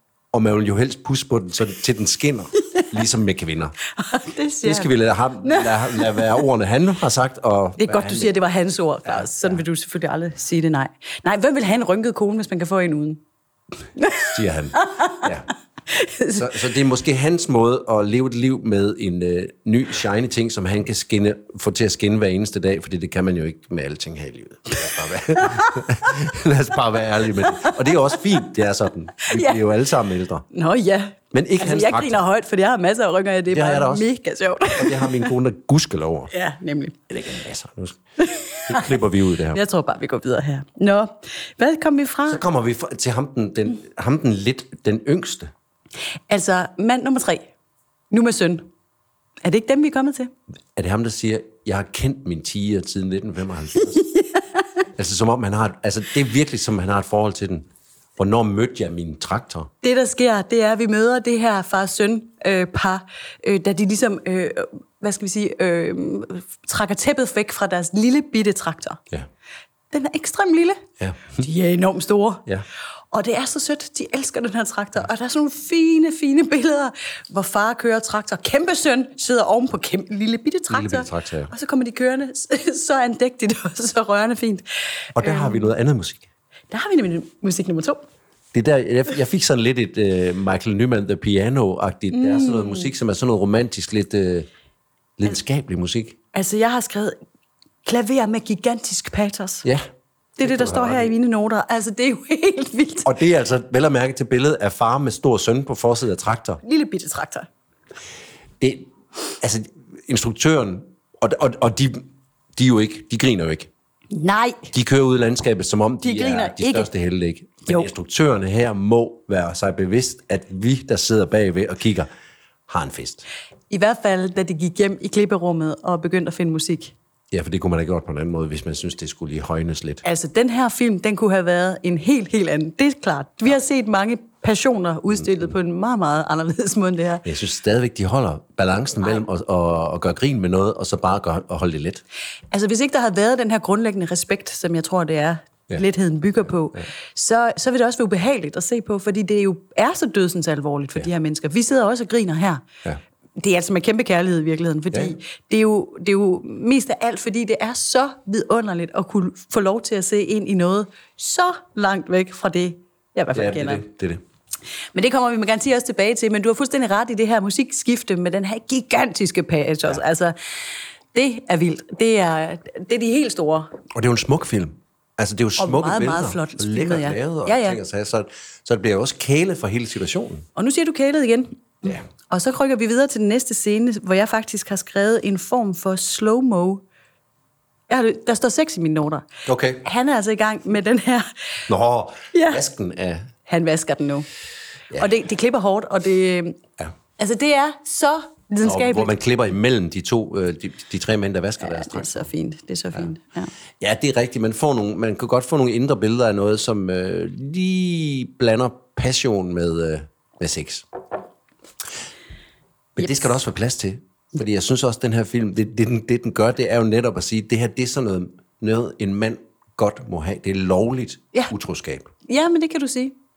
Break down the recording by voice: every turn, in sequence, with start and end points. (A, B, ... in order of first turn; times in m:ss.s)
0:00.3-0:03.7 A
0:04.0-0:06.4 B
0:04.6-0:08.3 A
0:07.8-0:13.2 B
0:09.1-0:09.6 A
0:14.0-0:15.3 B
0:14.2-0:15.5 A
0:15.9-0:16.5 B
0:16.4-0:30.4 A
0:25.4-0:25.8 B
0:27.5-0:27.8 B
0:29.3-0:29.6 B
0:30.5-0:35.3 B
0:31.3-0:32.2 A
0:33.5-0:34.1 A
0:34.8-0:36.3 A
0:36.3-0:37.0 B
0:37.1-0:38.0 A
0:38.2-0:38.9 B
0:38.6-0:39.6 A
0:39.5-0:42.4 B
0:42.3-0:45.5 A
0:46.3-0:47.5 B
0:48.1-0:48.7 B
0:49.4-0:50.3 B
0:50.8-0:54.1 A
0:55.0-0:59.7 A
0:59.8-1:09.0 B
1:09.9-1:12.5 B
1:11.0-1:11.5 A
1:13.1-1:25.7 B
1:20.7-1:21.5 A
1:25.2-1:26.3 A
1:26.7-1:28.0 B
1:28.5-1:34.5 A
1:32.1-1:32.9 B
1:35.2-1:36.2 A
1:36.3-1:37.2 B
1:37.8-1:39.7 B
1:40.4-1:43.1 B
1:40.4-1:41.1 A
1:43.0-1:46.6 A
1:46.6-1:47.5 B
1:48.6-1:48.9 A
1:49.4-1:53.7 A
1:54.1-1:54.7 B
1:54.7-2:02.1 A
1:56.0-1:56.9 B
2:02.7-2:03.3 A
2:03.7-2:06.9 B
2:07.3-2:10.0 A
2:10.0-2:17.2 B
2:17.2-2:22.0 A
2:22.5-2:32.6 B
2:33.4-2:43.8 B
2:43.3-2:44.2 A
2:44.9-2:50.4 B
2:51.1-2:53.8 B
2:53.9-3:00.5 A
2:55.6-2:57.8 B
3:00.6-3:06.8 B
3:07.9-3:09.3 B
3:09.5-3:09.8 A
3:09.8-3:11.6 B
3:11.7-3:13.3 A
3:12.3-3:12.6 B
3:13.5-3:14.3 B
3:15.0-3:16.6 B
3:17.2-3:19.1 B
3:18.6-3:22.3 A
3:21.6-3:23.5 B
3:23.8-3:30.9 A
3:33.0-3:42.1 A
3:42.3-3:43.2 B